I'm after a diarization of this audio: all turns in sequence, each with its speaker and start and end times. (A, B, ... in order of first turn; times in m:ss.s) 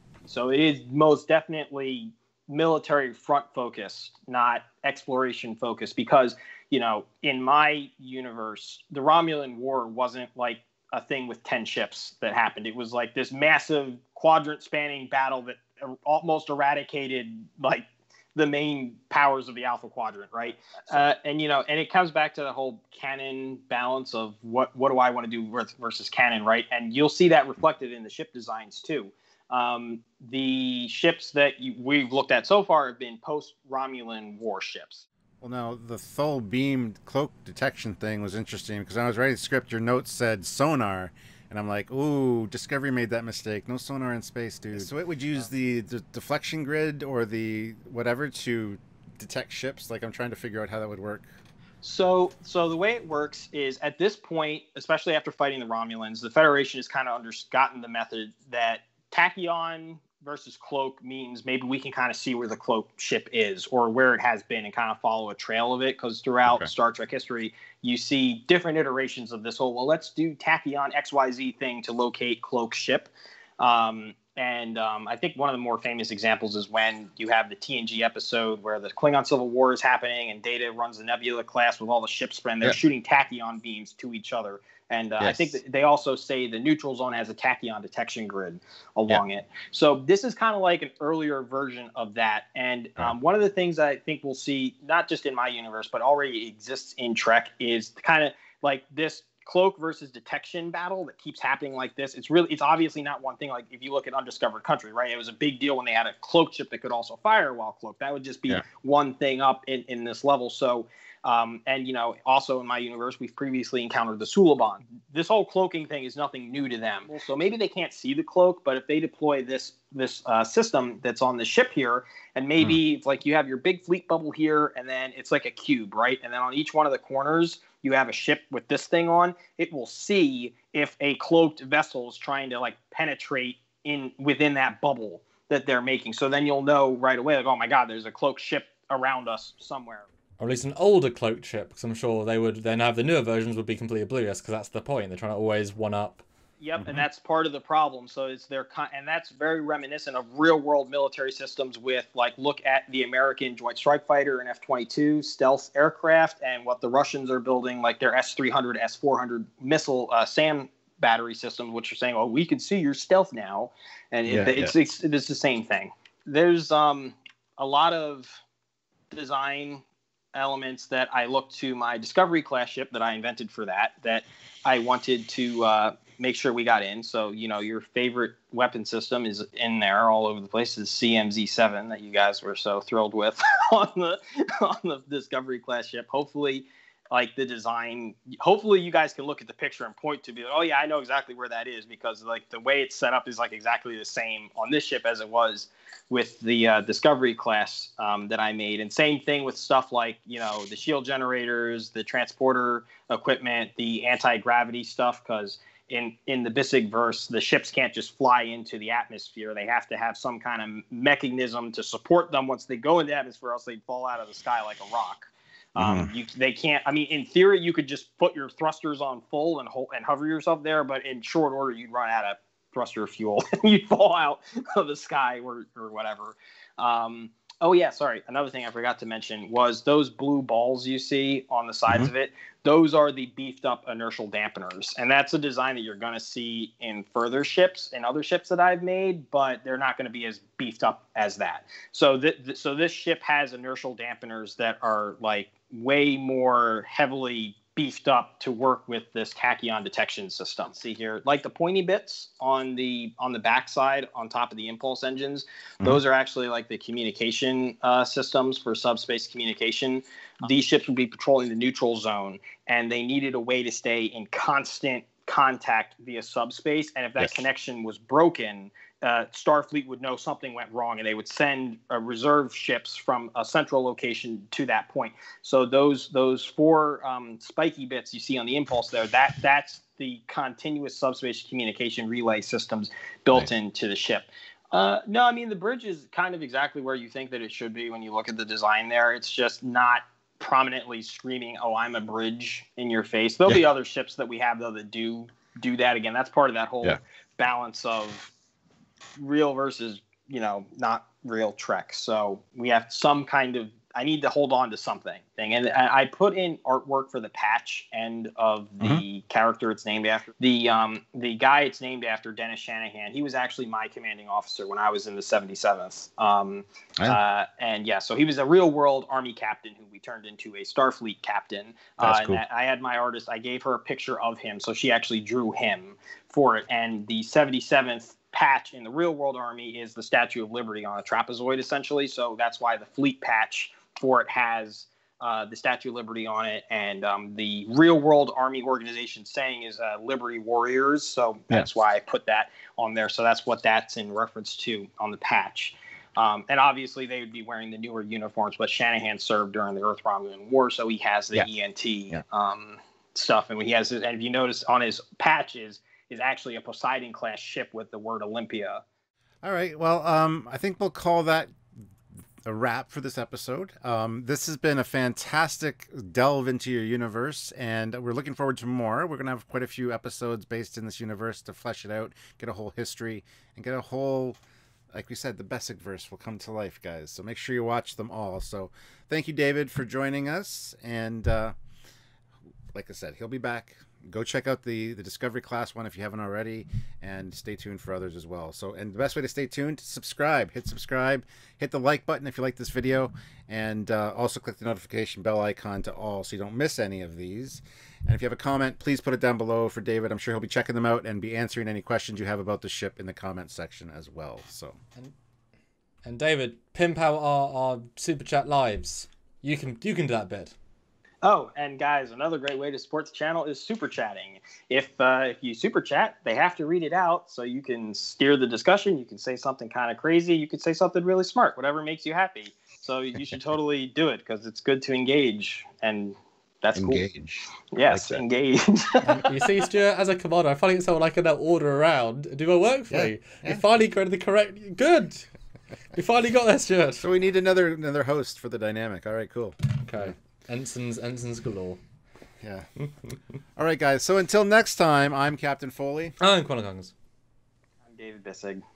0:00.3-0:35.0 A
0:35.4-0:51.3 B
0:51.8-2:20.1 A
1:25.2-1:25.5 B
2:20.4-2:26.2 C
2:26.6-2:48.4 A
2:26.8-2:27.0 B
2:44.3-2:44.7 B
2:49.1-4:58.3 A
3:35.8-3:36.1 B
4:59.2-5:58.8 A
5:22.0-5:22.4 B
5:59.4-6:01.5 B
6:02.4-6:14.4 B
6:14.9-6:21.5 B
6:22.7-6:44.8 B
6:46.0-6:50.5 C
6:51.2-7:07.0 A
7:06.7-7:08.2 B
7:07.7-7:09.2 A
7:09.0-7:15.3 C
7:12.9-7:13.6 B
7:15.9-7:17.0 C
7:17.0-7:20.1 B
7:19.8-7:21.8 C
7:22.4-7:22.7 B
7:23.6-7:26.2 B
7:26.2-7:26.9 C
7:27.8-7:28.6 A